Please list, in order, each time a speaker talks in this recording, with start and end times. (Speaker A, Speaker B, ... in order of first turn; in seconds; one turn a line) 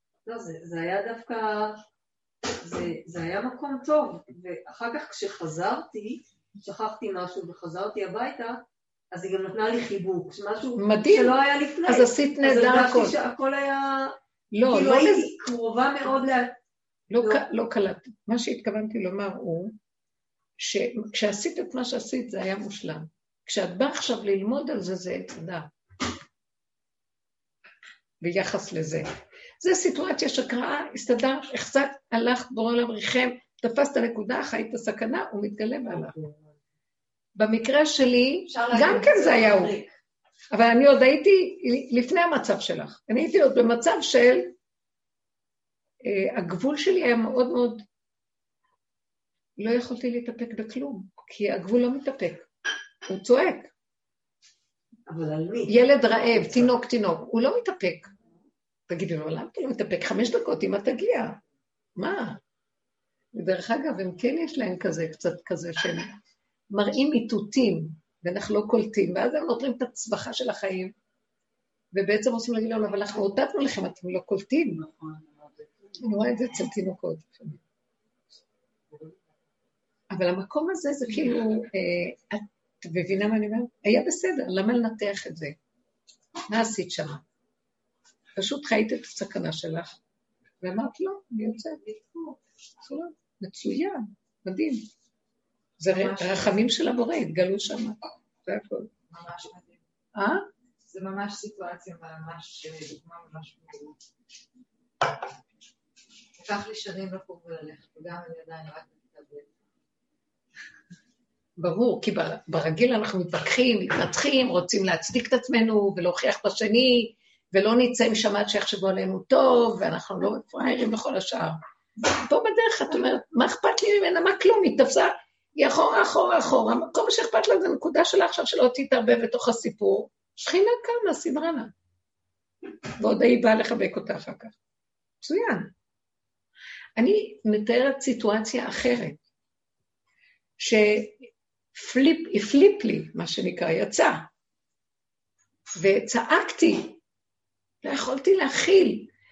Speaker A: 0.2-1.8
Speaker A: 2.6-14.2
Speaker B: 10.8-13.2
Speaker B: 14.5-15.3
Speaker A: 14.7-16.6
Speaker B: 17.1-19.8
Speaker A: 17.2-17.4
Speaker B: 20.6-25.7
Speaker B: 28.2-29.1
Speaker B: 29.6-36.2
Speaker B: 37.4-39.8
Speaker A: 38.5-39.9
Speaker B: 40.5-44.5
Speaker B: 46.0-47.8
Speaker B: 49.6-52.5
Speaker B: 53.1-53.7
Speaker A: 55.1-55.7
Speaker B: 55.7-58.1
Speaker B: 58.9-61.4
Speaker B: 62.0-62.4
Speaker B: 63.3-66.2
Speaker B: 66.7-70.9
Speaker B: 71.9-74.8
Speaker B: 76.0-77.6
Speaker B: 80.1-85.5
Speaker B: 86.5-87.2
Speaker B: 88.4-90.0
Speaker B: 90.6-91.8
Speaker C: 91.8-92.3
Speaker B: 92.8-94.8
Speaker B: 95.8-98.9
Speaker C: 95.9-96.6
Speaker C: 99.1-99.8
Speaker B: 100.1-100.4
Speaker C: 100.9-104.0
Speaker C: 106.4-109.5
Speaker B: 111.6-131.7
Speaker B: 133.0-134.6
Speaker B: 135.2-135.7
Speaker B: 137.0-139.2
Speaker B: 140.6-144.3
Speaker B: 145.8-147.0
Speaker B: 147.8-149.1